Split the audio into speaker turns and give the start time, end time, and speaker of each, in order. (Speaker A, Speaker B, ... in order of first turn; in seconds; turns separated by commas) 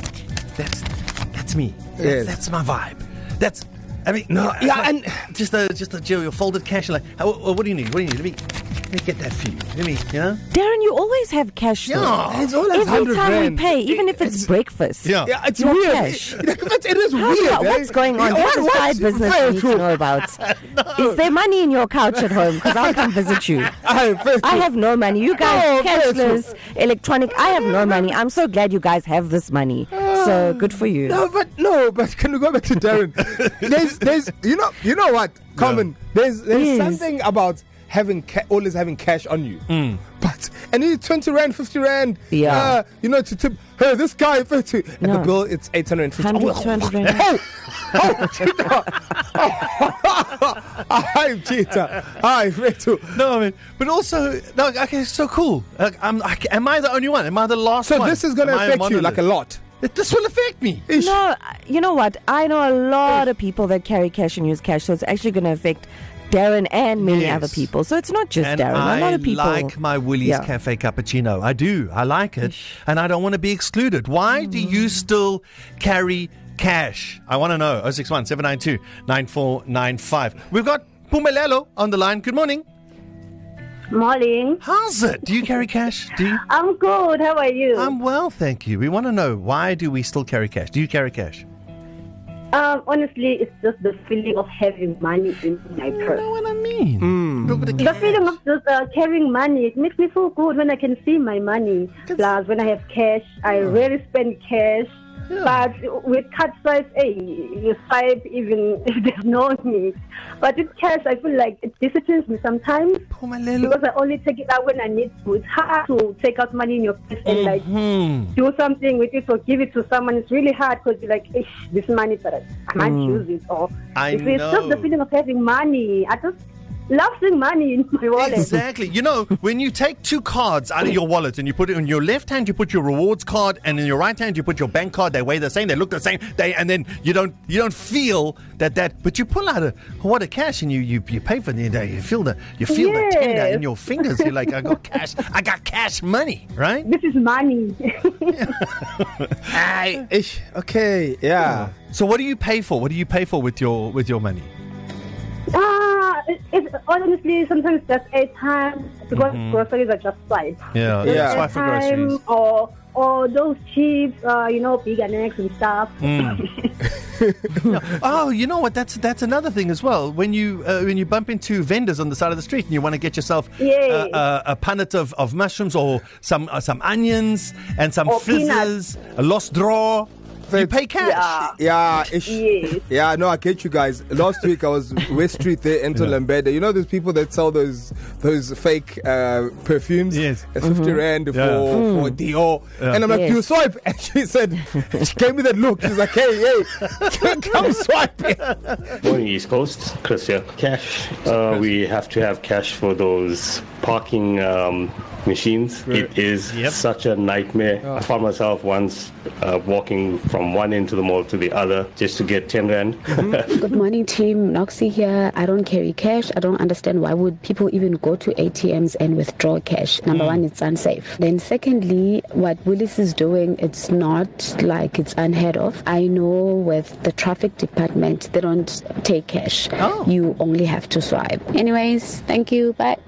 Speaker A: 0.6-10.4, Speaker B: 2.0-2.4, Speaker B: 4.3-5.3, Speaker C: 10.5-12.2, Speaker A: 11.9-12.5, Speaker B: 12.2-14.5, Speaker C: 12.7-16.4, Speaker A: 15.0-15.3, Speaker B: 15.2-20.0, Speaker C: 17.1-20.4, Speaker A: 20.4-21.0, Speaker C: 21.0-23.8, Speaker B: 23.8-24.7, Speaker C: 24.4-31.2, Speaker B: 25.4-26.4, Speaker B: 30.2-30.5, Speaker B: 31.1-53.2, Speaker A: 35.6-35.9, Speaker C: 36.5-37.0, Speaker A: 39.7-40.0, Speaker C: 42.3-42.8, Speaker C: 45.0-45.3, Speaker C: 46.2-47.3, Speaker A: 53.1-59.2, Speaker B: 57.8-59.6, Speaker A: 59.8-60.9, Speaker B: 60.9-61.2, Speaker C: 61.0-70.5, Speaker A: 67.0-67.7, Speaker A: 68.4-82.6, Speaker D: 83.9-84.6, Speaker A: 84.6-86.4, Speaker D: 86.3-87.9, Speaker A: 87.8-91.5, Speaker D: 92.5-96.2, Speaker A: 95.9-98.3, Speaker B: 97.0-97.8, Speaker D: 97.8-104.9, Speaker A: 105.3-105.7, Speaker D: 105.4-113.0, Speaker A: 113.1-113.8, Speaker D: 113.6-117.7, Speaker A: 117.3-118.3, Speaker D: 118.3-126.4, Speaker C: 122.8-123.2, Speaker A: 124.0-124.9, Speaker D: 126.9-128.6, Speaker A: 128.2-146.9, Speaker D: 142.7-144.7, Speaker D: 146.8-148.6, Speaker A: 148.4-149.3, Speaker B: 149.5-151.7, Speaker A: 151.4-154.5, Speaker D: 155.5-166.7, Speaker A: 159.2-159.6, Speaker A: 160.7-162.2, Speaker B: 161.0-161.5, Speaker A: 166.0-166.4, Speaker A: 167.7-181.5, Speaker D: 173.6-174.2, Speaker D: 178.1-178.7, Speaker B: 180.5-181.1, Speaker D: 181.0-181.6, Speaker B: 181.6-198.5, Speaker D: 182.2-182.8, Speaker A: 190.1-190.4, Speaker C: 190.6-191.0, Speaker A: 191.3-191.7, Speaker C: 191.7-192.2, Speaker C: 193.1-193.4, Speaker E: 199.0-213.7, Speaker F: 213.6-233.0, Speaker A: 220.1-220.4, Speaker A: 229.8-230.1